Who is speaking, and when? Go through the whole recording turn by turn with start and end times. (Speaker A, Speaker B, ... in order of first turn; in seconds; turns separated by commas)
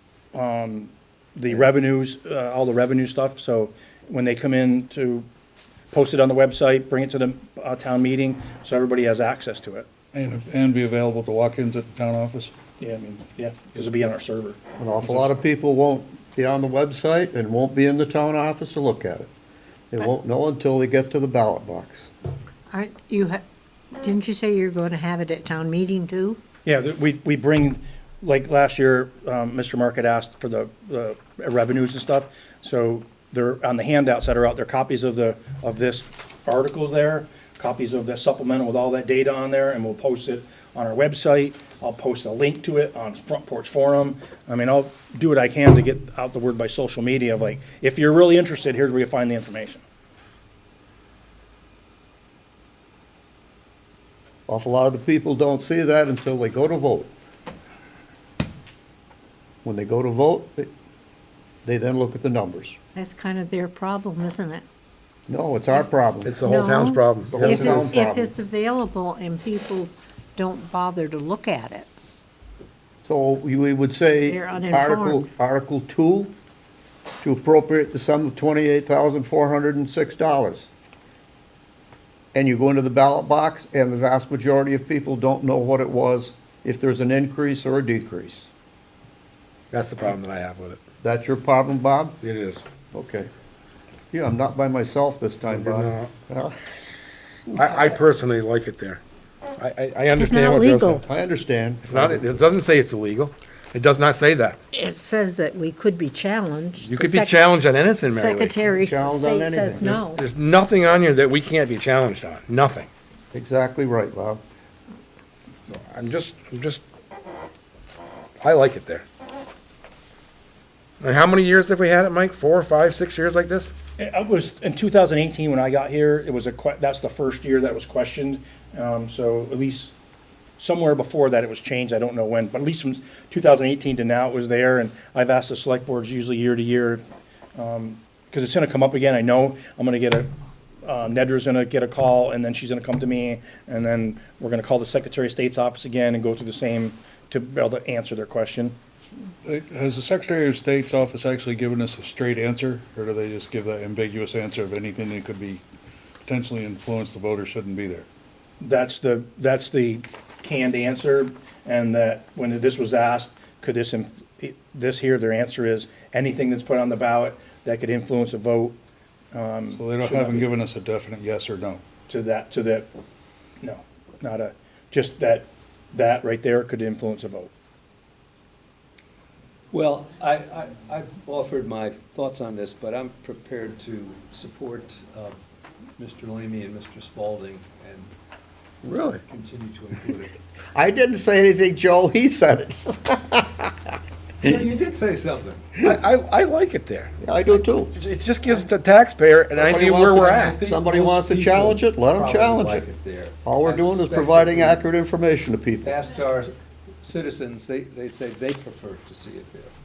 Speaker A: 0.3-5.3, Speaker A: 5.9-9.9, Speaker B: 10.1-12.5, Speaker A: 12.8-15.3, Speaker C: 14.8-19.3, Speaker C: 19.9-22.1, Speaker D: 22.7-23.4, Speaker D: 23.9-26.4, Speaker A: 26.7-49.8, Speaker C: 54.5-57.1, Speaker C: 59.6-60.7, Speaker C: 61.6-62.8, Speaker D: 62.9-64.7, Speaker C: 65.3-66.4, Speaker D: 65.7-71.9, Speaker E: 66.2-67.8, Speaker C: 67.3-68.3, Speaker C: 73.0-76.3, Speaker D: 74.3-75.2, Speaker C: 77.2-80.7, Speaker C: 82.3-88.5, Speaker E: 89.7-90.8, Speaker C: 91.0-92.2, Speaker E: 92.2-92.7, Speaker C: 92.9-93.3, Speaker C: 94.1-96.6, Speaker E: 95.5-96.1, Speaker E: 97.5-99.0, Speaker E: 99.6-101.0, Speaker D: 100.2-101.0, Speaker C: 101.0-102.4, Speaker E: 101.8-104.6, Speaker D: 104.7-110.2, Speaker E: 106.8-108.6, Speaker C: 108.7-110.0, Speaker E: 109.8-112.9, Speaker C: 113.3-114.4, Speaker E: 115.7-116.8, Speaker E: 118.4-119.1, Speaker E: 121.0-123.7, Speaker A: 124.0-129.9, Speaker A: 130.6-137.0, Speaker A: 137.6-140.3, Speaker A: 140.8-148.8, Speaker B: 149.4-155.6, Speaker B: 156.3-158.1, Speaker A: 158.6-168.8, Speaker A: 169.3-170.5, Speaker B: 169.7-171.8, Speaker A: 172.1-172.9, Speaker A: 173.6-177.5, Speaker F: 179.8-185.3, Speaker F: 186.0-188.0, Speaker C: 188.8-189.2, Speaker F: 189.3-190.3, Speaker C: 190.8-193.9, Speaker F: 194.4-195.6, Speaker E: 195.8-197.2, Speaker C: 197.2-197.9, Speaker E: 198.0-200.6, Speaker C: 199.5-202.9, Speaker F: 200.6-204.8, Speaker C: 203.4-206.0, Speaker F: 205.9-206.5, Speaker F: 207.0-209.6